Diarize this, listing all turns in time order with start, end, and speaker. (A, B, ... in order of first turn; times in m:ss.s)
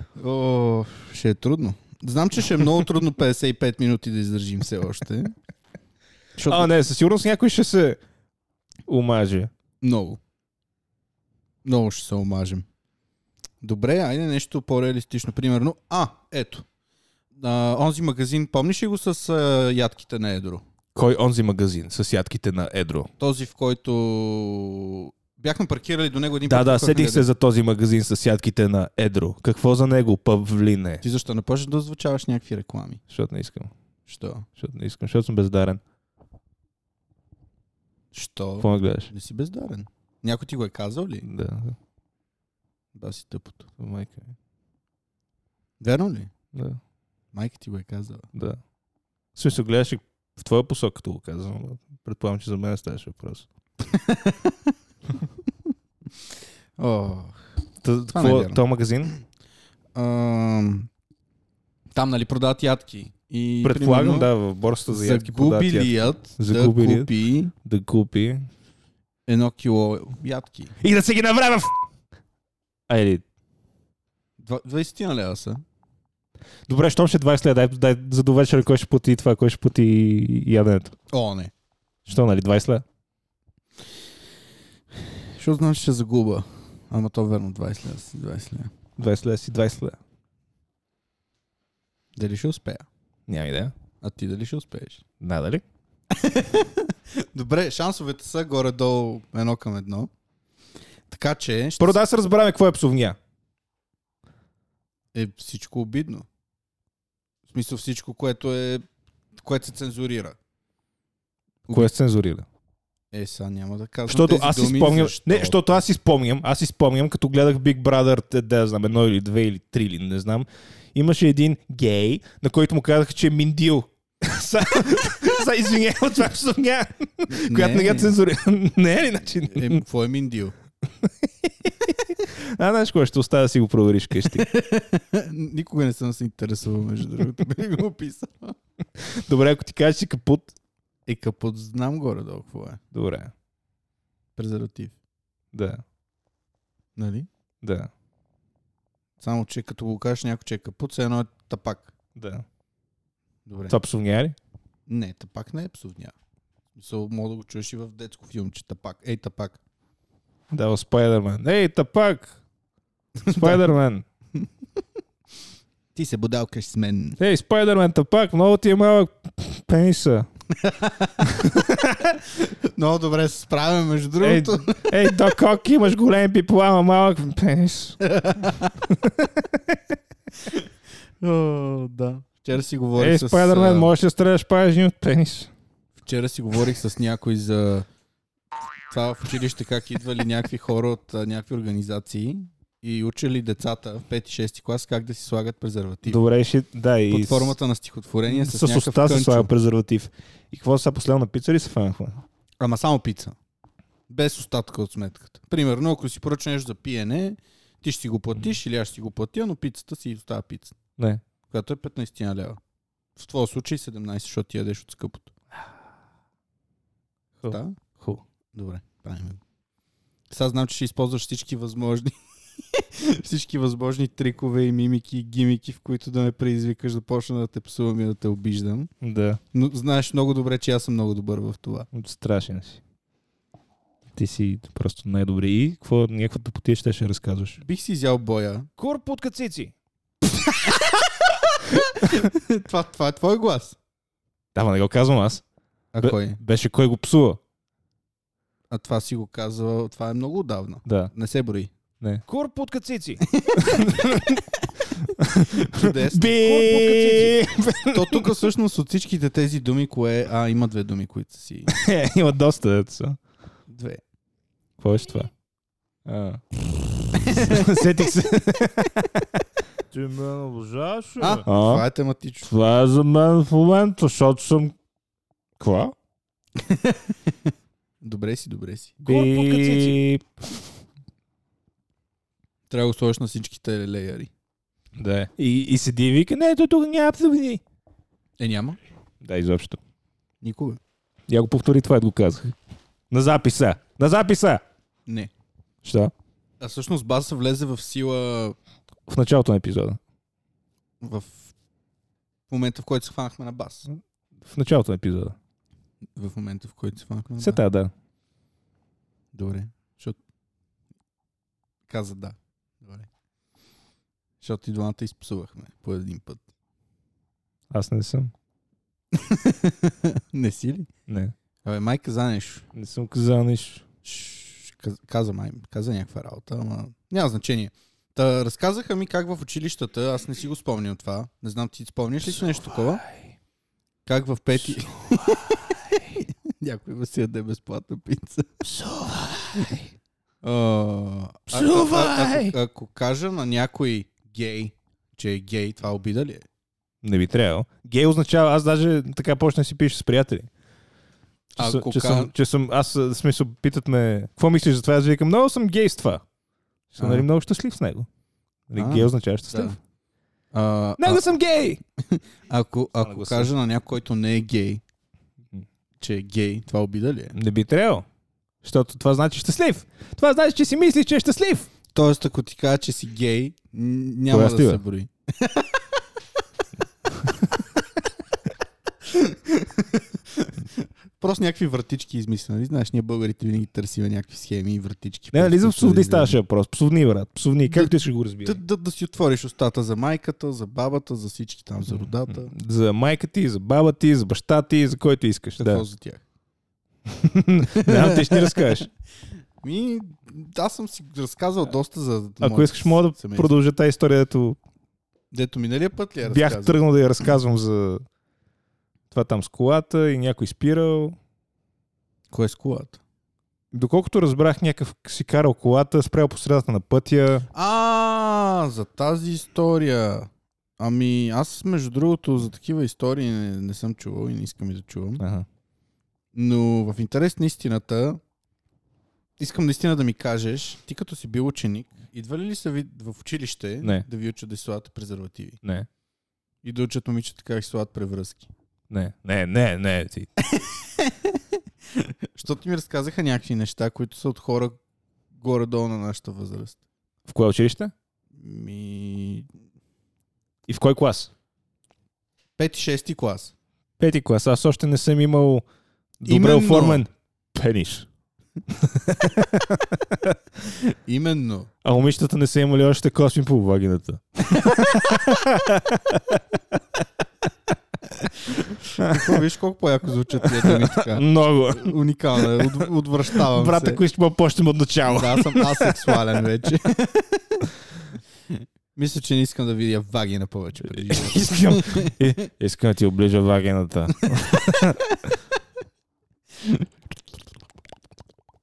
0:00.2-0:05.3 A
0:06.4-0:06.7 A
0:06.5-0:08.0 B
0:08.9-0:09.5 B
0:09.8-0:10.2 A
0:11.6-0:12.6 A
0:13.6-0:16.6 A
0:17.3-0:20.6 A
0:20.9-0:23.1 B
0:23.2-0:27.3 A
0:26.5-0:31.0 B
0:31.0-0:33.0 A
0:33.1-0:33.7 B
0:34.0-0:34.5 A
0:34.6-0:35.8 B
0:38.1-0:41.2 A
0:38.6-0:39.1 B
0:41.2-0:41.8 B
0:42.9-0:43.7 A
0:43.8-0:44.3 B
0:45.8-0:46.3 A
0:46.5-0:46.8 B
0:47.3-0:48.2 A
0:48.3-0:48.6 B
0:49.4-0:53.5 B
0:53.8-0:54.7 A
0:56.8-0:57.4 A
0:57.8-0:59.1 B
0:58.1-0:58.6 A
0:59.9-1:00.9 A
1:01.9-1:04.3 A
1:03.6-1:07.1 B
1:04.9-1:07.5 A
1:07.6-1:08.5 B
1:09.3-1:10.7 A
1:10.8-1:11.7 B
1:12.9-1:13.2 B
1:14.4-1:15.6 A
1:16.7-1:20.9 B
1:21.1-1:21.5 A
1:22.0-1:22.8 B
1:25.0-1:28.7 A
1:29.0-1:30.0 B
1:32.2-1:32.9 A
1:33.3-1:33.7 B
1:34.0-1:35.0 A
1:35.2-1:35.6 B
1:36.1-1:40.1 A
1:41.1-1:42.0 A
1:41.8-1:43.2 B
1:45.1-1:46.3 A
1:47.5-1:48.8 A
1:49.4-1:50.4 A
1:51.7-1:52.4 B
1:53.1-1:55.6 A
1:54.1-2:09.8 B
2:07.3-2:08.2 A
2:09.5-2:10.5 A
2:11.0-2:14.5 B
2:14.2-2:18.6 A
2:19.0-2:20.5 B
2:21.0-2:22.8 A
2:22.9-2:23.3 B
2:24.4-2:24.9 A
2:25.5-2:25.8 B
2:27.0-2:27.3 A
2:27.6-2:27.9 B
2:29.2-2:31.9 A
2:32.2-2:32.4 B
2:33.4-2:33.8 A
2:33.7-2:34.4 B
2:34.9-2:36.1 A
2:36.7-2:39.6 A
2:40.5-2:42.4 B
2:43.2-2:43.6 A
2:43.3-2:44.0 B
2:45.9-2:47.2 A
2:47.2-2:50.3 B
2:50.5-2:51.3 A
2:51.2-2:52.2 B
2:52.3-2:55.1 A
2:54.2-2:58.0 B
2:58.0-2:58.8 A
2:58.9-2:59.8 B
3:01.2-3:03.9 A
3:03.0-3:05.5 B
3:06.0-3:07.9 A
3:08.9-3:16.2 A
3:16.0-3:17.6 B
3:17.1-3:19.5 A
3:18.3-3:22.2 B
3:22.6-3:23.4 A
3:24.1-3:30.8 A
3:31.0-3:31.2 B
3:31.5-3:32.6 A
3:33.2-3:35.3 A
3:37.4-3:38.2 B
3:37.5-3:37.7 A
3:38.5-3:39.4 A
3:40.3-3:48.9 A
3:49.0-3:49.4 B
3:49.5-3:51.9 A
3:51.9-3:52.8 B
3:54.2-3:57.6 B
3:57.6-3:58.7 A
3:58.8-3:59.7 B
4:00.3-4:03.8 A
4:04.5-4:05.4 B
4:05.9-4:06.4 A
4:06.0-4:07.4 B
4:08.7-4:11.7 A
4:10.8-4:11.1 B
4:12.0-4:14.4 B
4:13.3-4:14.1 A
4:15.0-4:18.3 B
4:15.5-4:21.7 A
4:21.7-4:23.2 B
4:23.7-4:24.0 A
4:24.8-4:25.3 B
4:26.0-4:26.4 B
4:27.2-4:27.8 A
4:27.3-4:29.3 B
4:29.9-4:31.8 B
4:31.2-4:32.5 A
4:32.4-4:34.7 B
4:35.6-4:35.9 B
4:36.6-4:37.3 A
4:38.0-4:39.9 A
4:39.0-4:40.3 B
4:42.7-4:44.3 A
4:45.0-4:47.6 B
4:48.4-4:48.8 A
4:49.2-4:49.8 B
4:50.4-4:50.8 A
4:51.3-4:52.5 B
4:53.1-4:54.6 B
4:55.0-4:55.3 A
4:55.8-4:56.1 B
4:56.6-4:58.6 A
4:59.1-5:00.0 B
5:01.0-5:01.5 A
5:02.5-5:03.9 A
5:03.9-5:05.4 B
5:06.2-5:07.6 A
5:07.4-5:07.9 B
5:09.3-5:10.2 A
5:11.9-5:13.1 A
5:14.4-5:16.4 A
5:17.7-5:18.3 B
5:19.1-5:20.9 A
5:21.1-5:21.3 B
5:21.6-5:22.6 A
5:22.7-5:23.8 B
5:24.0-5:33.0 A
5:32.6-5:33.3 B
5:34.0-5:38.6 A
5:34.8-5:36.2 B
5:38.6-5:39.9 B
5:40.4-5:46.4 A
5:41.5-5:42.6 B
5:47.0-5:50.5 B
5:51.6-5:56.2 B
5:51.6-5:52.3 A
5:56.9-5:58.1 B
5:57.0-5:57.3 A
5:58.7-5:59.8 B
5:58.8-5:59.8 A
6:00.5-6:01.3 A
6:01.0-6:01.8 B
6:02.1-6:04.8 A
6:03.0-6:03.5 B
6:06.0-6:07.3 A
6:07.3-6:08.0 B
6:08.6-6:11.7 B
6:11.9-6:15.8 A
6:14.3-6:14.8 B
6:17.2-6:17.5 B
6:19.0-6:26.4 A
6:25.3-6:28.6 B
6:27.7-6:32.5 A
6:31.9-6:35.8 B
6:35.6-6:36.2 A
6:37.1-6:38.9 B
6:37.7-6:38.8 A
6:39.6-6:43.5 A
6:42.4-6:44.6 B
6:45.3-6:46.8 A
6:46.2-6:48.0 B
6:49.1-6:51.2 B
6:52.3-6:53.0 A
6:53.7-6:57.5 B
6:57.5-7:05.2 A
7:05.2-7:05.4 B
7:06.3-7:08.2 A
7:09.4-7:15.6 A
7:15.6-7:15.9 B
7:16.6-7:18.5 A
7:18.9-7:20.3 B
7:20.4-7:24.8 A
7:25.3-7:26.8 A
7:27.2-7:27.9 B
7:28.3-7:29.5 A
7:30.7-7:31.3 B
7:32.6-7:33.5 A
7:34.0-7:35.6 B
7:36.2-7:38.1 B
7:36.2-7:37.0 A
7:38.7-7:40.4 B
7:40.6-7:41.7 A
7:41.8-7:46.8 B
7:44.6-7:44.9 A
7:48.9-7:49.4 B
7:49.0-7:54.0 A
7:50.4-7:52.8 B
7:53.4-7:56.1 B
7:55.0-7:57.7 A
7:58.5-8:02.3 A
8:00.9-8:05.0 B